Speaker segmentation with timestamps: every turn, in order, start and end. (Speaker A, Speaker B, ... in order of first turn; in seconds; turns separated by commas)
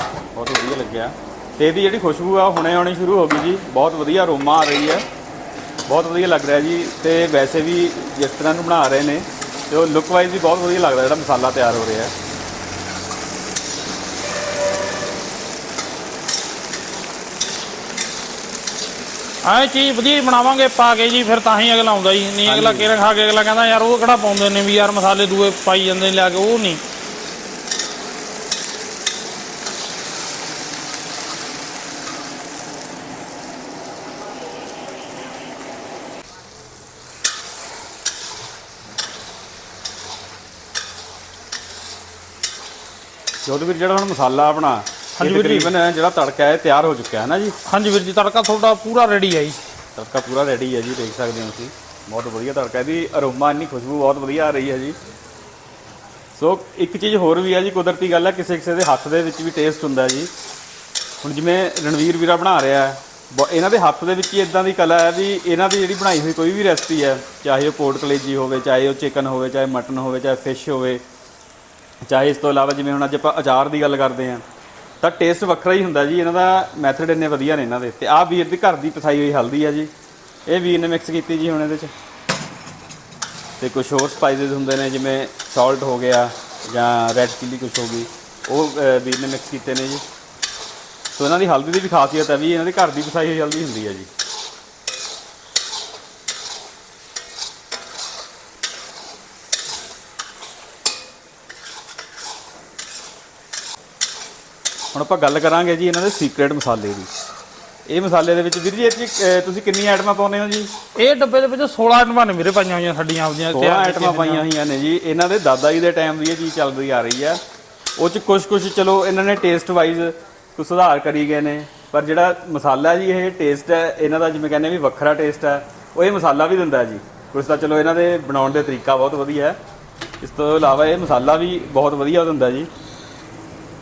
Speaker A: 0.3-5.0, Speaker A: 5.9-12.1, Speaker B: 19.4-26.8, Speaker A: 22.5-22.9, Speaker A: 43.5-47.5, Speaker B: 45.2-45.7, Speaker B: 47.6-49.6, Speaker A: 50.0-55.0, Speaker A: 56.4-60.3, Speaker A: 61.2-71.0, Speaker A: 72.1-74.4, Speaker A: 75.0-79.9, Speaker A: 80.5-81.9, Speaker A: 83.6-90.0, Speaker A: 91.2-94.1, Speaker A: 104.9-107.1, Speaker A: 107.9-110.7, Speaker B: 111.0-114.5, Speaker A: 113.5-117.4, Speaker A: 118.0-129.6, Speaker A: 130.2-132.7